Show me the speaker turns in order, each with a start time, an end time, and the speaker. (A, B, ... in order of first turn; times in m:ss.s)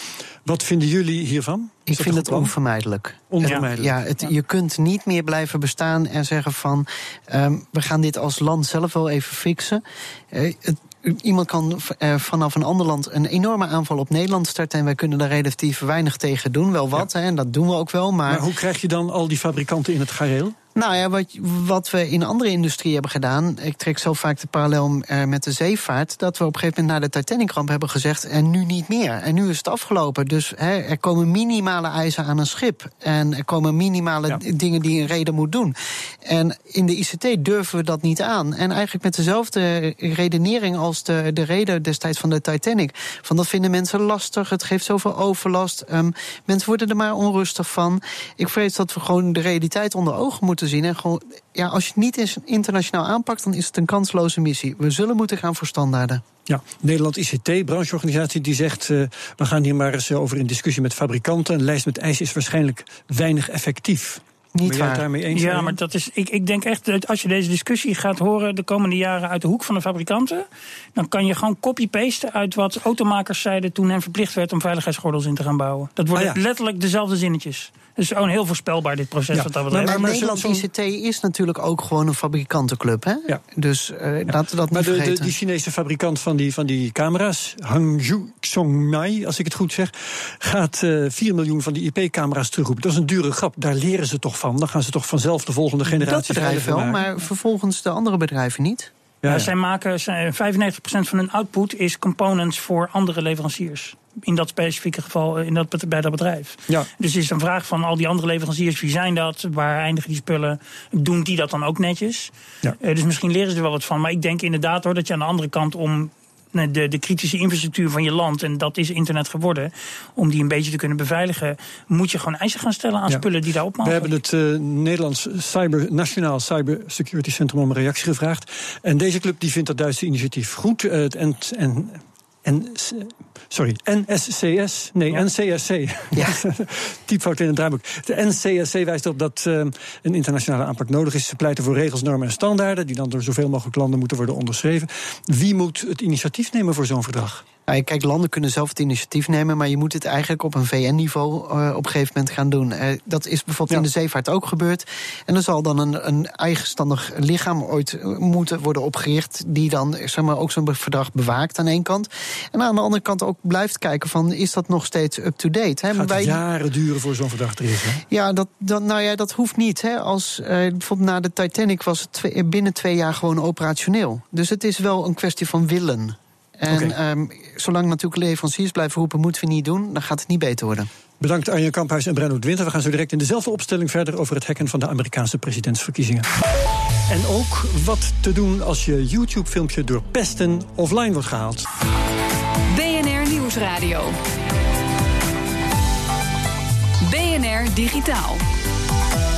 0:00.4-0:02.5 A
0:01.9-0:18.4 B
0:03.3-0:04.0 A
0:18.3-0:20.6 A
0:20.8-0:35.7 B
0:36.2-0:56.2 B
0:56.5-1:05.8 A
1:04.5-1:05.0 B
1:05.3-1:20.1 C
1:19.3-1:20.6 A
1:19.8-1:25.3 B
1:24.3-1:37.0 A
1:35.8-1:38.9 B
1:39.2-1:39.5 A
1:39.2-2:04.1 C
2:03.8-2:27.4 A
2:27.7-2:46.4 B
2:45.9-2:48.0 A
2:48.1-3:00.9 B
2:56.7-2:57.0 A
3:01.2-3:06.3 A
3:07.1-3:11.6 A
3:12.7-3:14.2 D
3:17.0-3:18.4 D